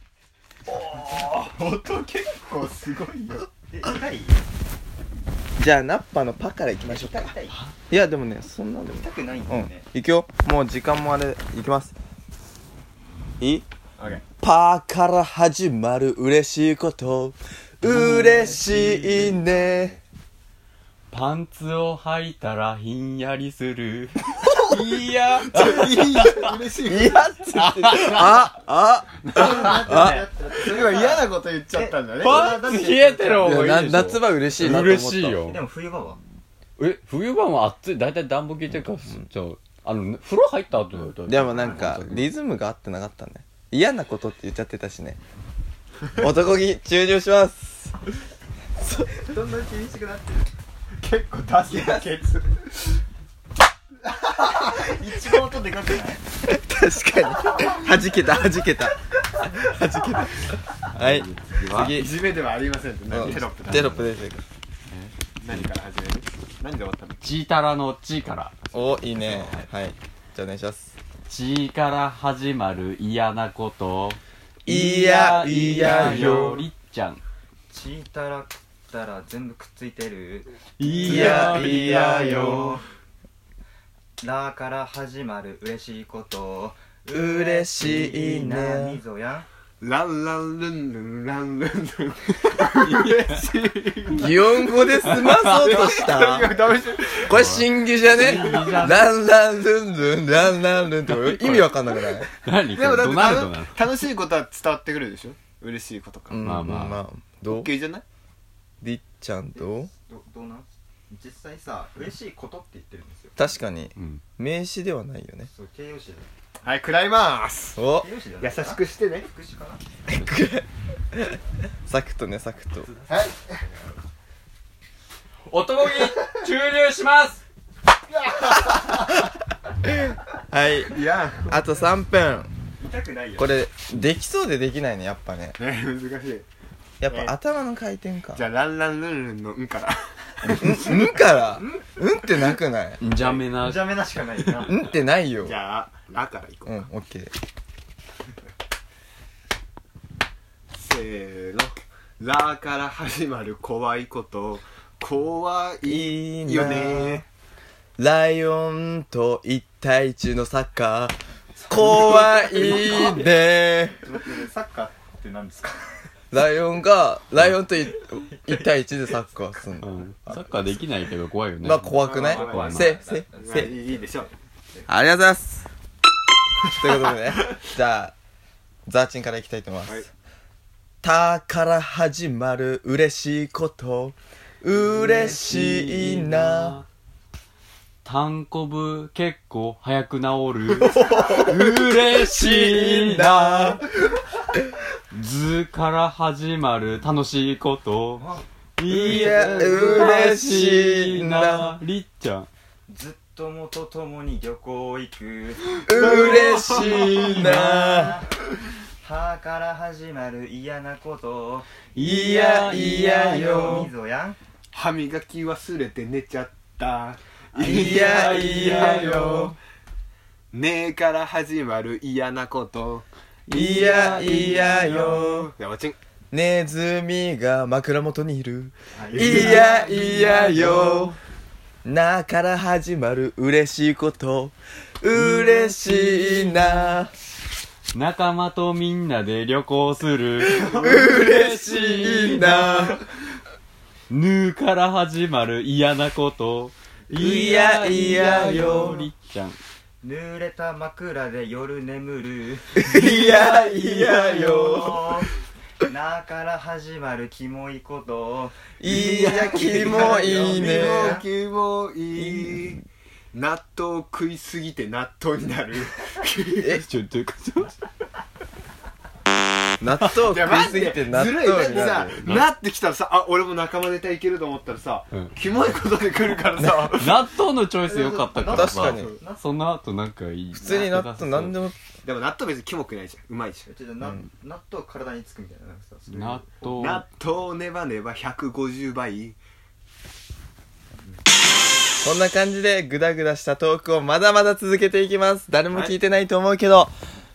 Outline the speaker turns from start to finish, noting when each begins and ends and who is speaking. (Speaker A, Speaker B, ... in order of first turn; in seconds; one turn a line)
Speaker A: 0.7-3.5
Speaker B: 3.7-4.4
Speaker C: 5.6-7.3
Speaker B: 6.8-7.5
Speaker C: 7.9-11.9
Speaker B: 8.9-9.8
Speaker C: 13.4-13.6
Speaker C: 14.4-19.9
Speaker D: 17.8-18.7
Speaker B: 18.8-20.0
Speaker D: 21.1-26.5
Speaker A: 24.4-27.3
Speaker C: 26.9-30.2
Speaker D: 27.5-28.2
Speaker A: 27.8-28.4
Speaker A: 29.2-32.6
Speaker B: 29.3-33.6
Speaker D: 32.2-35.6
Speaker C: 33.4-35.4
Speaker B: 35.4-36.2
Speaker D: 36.8-42.3
Speaker C: 41.3-45.2
Speaker B: 41.5-41.8
Speaker C: 46.1-48.0
Speaker C: 48.8-49.1
Speaker B: 49.1-50.5
Speaker A: 51.0-53.0
Speaker B: 54.3-56.2
Speaker C: 56.4-62.2
Speaker D: 60.9-62.0
Speaker A: 61.8-64.1
Speaker C: 63.1-64.4
Speaker D: 64.9-65.6
Speaker A: 65.4-67.2
Speaker D: 67.2-68.5
Speaker C: 68.7-70.9
Speaker B: 69.2-69.7
Speaker D: 71.3-77.2
Speaker C: 74.7-76.6
Speaker A: 75.8-76.5
Speaker B: 77.7-82.8
Speaker D: 80.8-82.8
Speaker C: 81.0-82.6
Speaker B: 84.2-89.5
Speaker C: 87.1-89.0
Speaker A: 89.8-97.5
Speaker D: 92.4-93.4
Speaker C: 94.1-96.5
Speaker D: 95.0-96.1
Speaker C: 97.3-102.3
Speaker D: 97.3-99.1
Speaker A: 98.1-99.0
Speaker D: 101.0-103.8
Speaker A: 102.6-106.5
Speaker C: 106.3-107.7
Speaker D: 106.4-107.0
Speaker A: 107.5-108.0
Speaker C: 108.8-109.9
Speaker B: 109.5-113.4
Speaker C: 113.4-115.5
Speaker D: 114.0-114.2
Speaker B: 115.5-116.3
Speaker A: 116.6-117.8
Speaker C: 117.8-118.0
Speaker B: 117.9-119.8
Speaker A: 118.4-119.3
Speaker C: 120.1-122.9
Speaker B: 122.8-123.9
Speaker A: 123.1-123.6
Speaker D: 125.5-127.4
Speaker A: 128.2-129.0
Speaker C: 129.8-132.5
Speaker A: 130.8-131.8
Speaker B: 132.8-133.5
Speaker C: 133.4-135.6
Speaker A: 135.6-136.4
Speaker C: 137.0-138.4
Speaker A: 137.0-137.3
Speaker A: 138.4-141.1
Speaker C: 140.5-143.0
Speaker D: 143.0-143.9
Speaker B: 143.1-144.8
Speaker C: 144.6-145.6
Speaker A: 145.4-146.8
Speaker C: 146.7-147.3
Speaker A: 150.7-157.2
Speaker C: 155.8-157.2
Speaker C: 158.0-161.1
Speaker B: 161.6-163.3
Speaker C: 161.7-164.1
Speaker B: 163.9-166.1
Speaker C: 166.3-170.4
Speaker B: 168.3-168.8
Speaker D: 169.8-173.0
Speaker C: 171.6-173.7
Speaker A: 172.0-174.3
Speaker B: 172.2-174.9
Speaker C: 174.9-175.6
Speaker C: 176.7-178.1
Speaker C: 178.9-180.1
Speaker C: 181.0-186.8
Speaker D: 185.0-186.9
Speaker D: 188.0-193.8
Speaker C: 190.8-193.9
Speaker A: 190.9-191.4
Speaker D: 195.1-198.2
Speaker B: 198.2-198.4
Speaker D: 198.8-202.5
Speaker C: 198.9-201.8
Speaker A: 199.0-200.1
Speaker B: 202.9-208.3
Speaker C: 205.9-208.2
Speaker A: 205.9-207.5
Speaker B: 209.0-211.7
Speaker D: 211.9-213.9
Speaker C: 211.9-213.9
Speaker B: 213.3-214.4
Speaker A: 214.7-219.5
Speaker C: 217.6-219.5
Speaker D: 217.6-219.5
Speaker A: 220.5-223.1
Speaker D: 223.5-225.2
Speaker C: 223.5-225.5
Speaker A: 224.6-226.0
Speaker C: 226.3-231.1
Speaker A: 229.0-230.8
Speaker B: 229.0-229.6
Speaker D: 229.2-231.2
Speaker C: 231.8-237.1
Speaker D: 235.1-236.9
Speaker D: 237.9-243.0
Speaker A: 240.4-241.1
Speaker C: 240.5-243.0
Speaker D: 244.1-249.6
Speaker C: 247.1-249.1
Speaker B: 250.0-255.3
Speaker C: 252.8-255.1
Speaker B: 255.8-258.6
Speaker C: 258.8-261.2
Speaker A: 258.9-266.8
Speaker B: 259.1-261.2
Speaker C: 266.6-266.9
Speaker D: 266.8-267.8
Speaker C: 269.8-272.2
Speaker A: 270.1-277.3
Speaker D: 272.2-272.5
Speaker C: 276.6-277.1
Speaker D: 276.9-281.6
Speaker B: 277.9-279.5
Speaker C: 278.4-279.1
Speaker A: 278.8-279.2
Speaker C: 280.6-281.8
Speaker A: 282.0-283.7
Speaker B: 283.6-286.9
Speaker C: 284.0-284.2
Speaker D: 286.1-287.0
Speaker A: 286.8-289.4
Speaker C: 292.0-296.9